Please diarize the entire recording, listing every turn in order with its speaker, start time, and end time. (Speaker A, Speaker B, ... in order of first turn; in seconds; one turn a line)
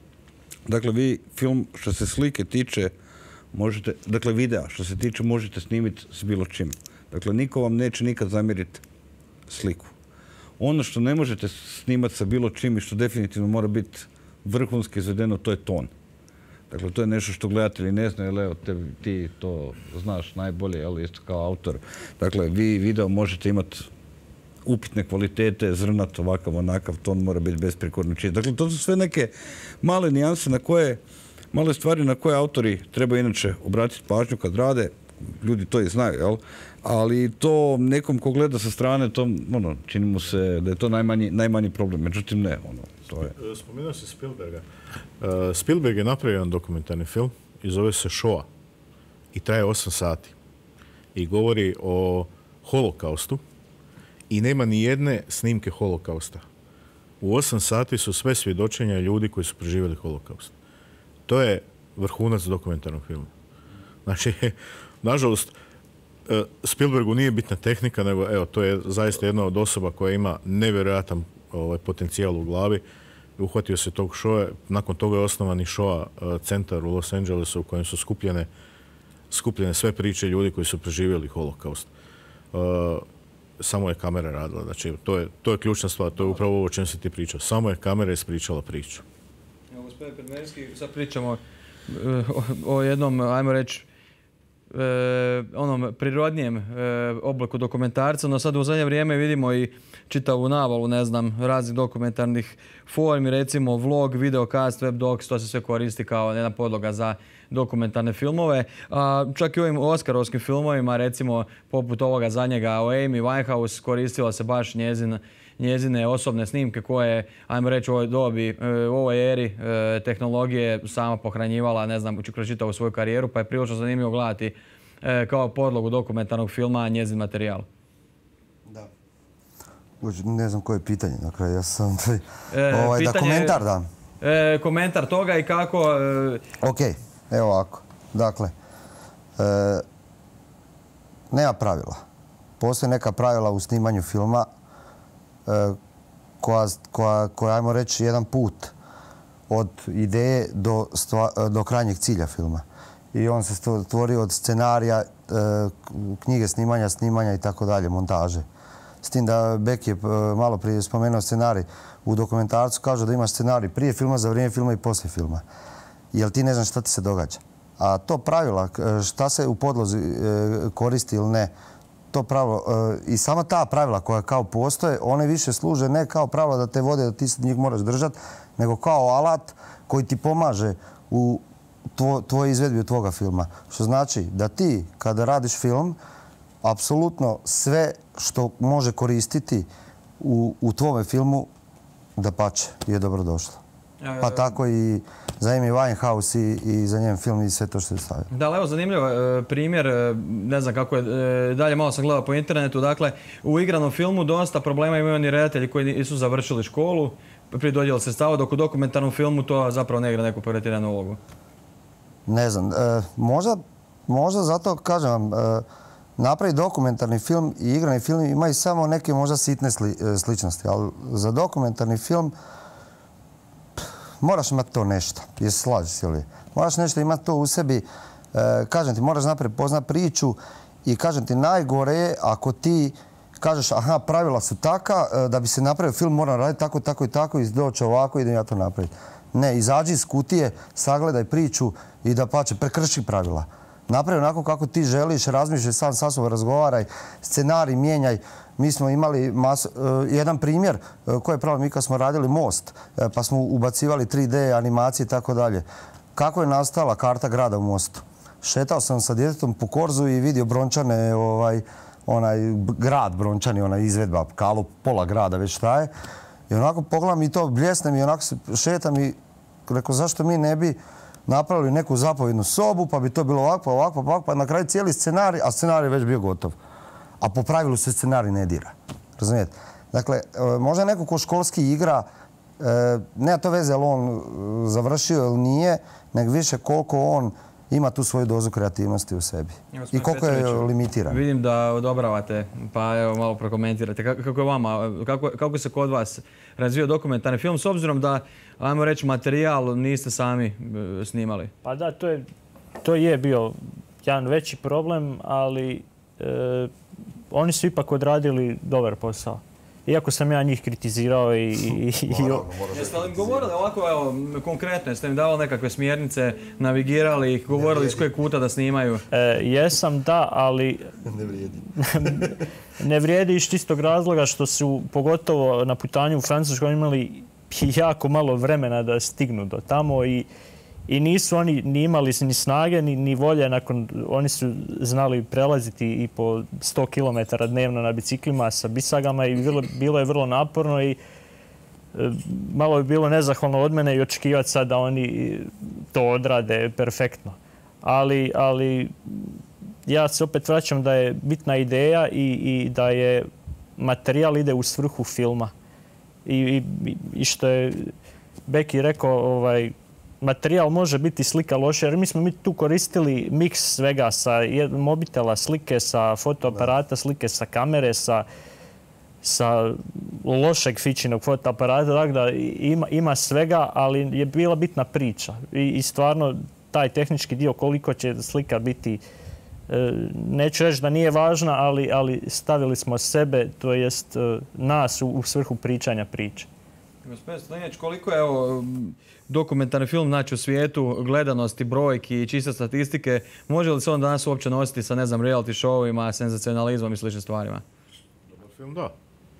Speaker A: 0.7-2.9
Speaker A: 3.5-8.8
Speaker A: 9.5-9.9
Speaker A: 10.6-15.9
Speaker A: 16.7-23.9
Speaker A: 24.6-31.0
Speaker A: 31.5-43.3
Speaker B: 43.4-44.6
Speaker B: 45.2-48.5
Speaker B: 49.3-50.3
Speaker B: 51.1-53.4
Speaker B: 54.3-56.4
Speaker B: 57.2-60.5
Speaker B: 61.3-63.3
Speaker B: 64.0-65.5
Speaker B: 66.3-72.8
Speaker B: 73.4-78.5
Speaker B: 79.3-81.9
Speaker B: 82.5-83.0
Speaker B: 83.6-89.0
Speaker C: 89.7-93.8
Speaker C: 94.7-127.7
Speaker D: 130.0-133.9
Speaker C: 132.5-133.6
Speaker C: 134.2-136.4
Speaker D: 136.6-138.5
Speaker D: 139.4-139.8
Speaker D: 141.3-142.0
Speaker D: 142.6-144.5
Speaker D: 145.4-145.8
Speaker D: 146.4-148.7
Speaker D: 149.5-158.4
Speaker D: 159.0-165.4
Speaker D: 166.1-171.5
Speaker D: 172.1-186.0
Speaker D: 186.6-189.7
Speaker D: 190.2-191.5
Speaker D: 192.2-193.6
Speaker C: 194.0-194.5
Speaker D: 194.2-198.3
Speaker C: 198.3-211.2
Speaker D: 212.3-215.6
Speaker D: 216.2-222.3
Speaker D: 224.2-255.6
Speaker D: 256.1-265.9
Speaker D: 266.5-276.5
Speaker D: 277.2-282.1
Speaker D: 282.6-291.2
Speaker C: 289.7-301.5
Speaker E: 301.6-302.2
Speaker E: 302.8-306.7
Speaker E: 307.3-312.5
Speaker D: 312.1-313.5
Speaker C: 312.7-319.0
Speaker D: 317.5-318.1
Speaker E: 319.1-320.9
Speaker D: 321.1-321.6
Speaker E: 321.8-330.3
Speaker E: 330.9-341.0
Speaker E: 341.9-355.5
Speaker E: 356.2-357.9
Speaker E: 358.5-368.2
Speaker E: 369.2-379.0
Speaker E: 379.7-386.5
Speaker C: 387.0-397.6
Speaker B: 398.3-398.9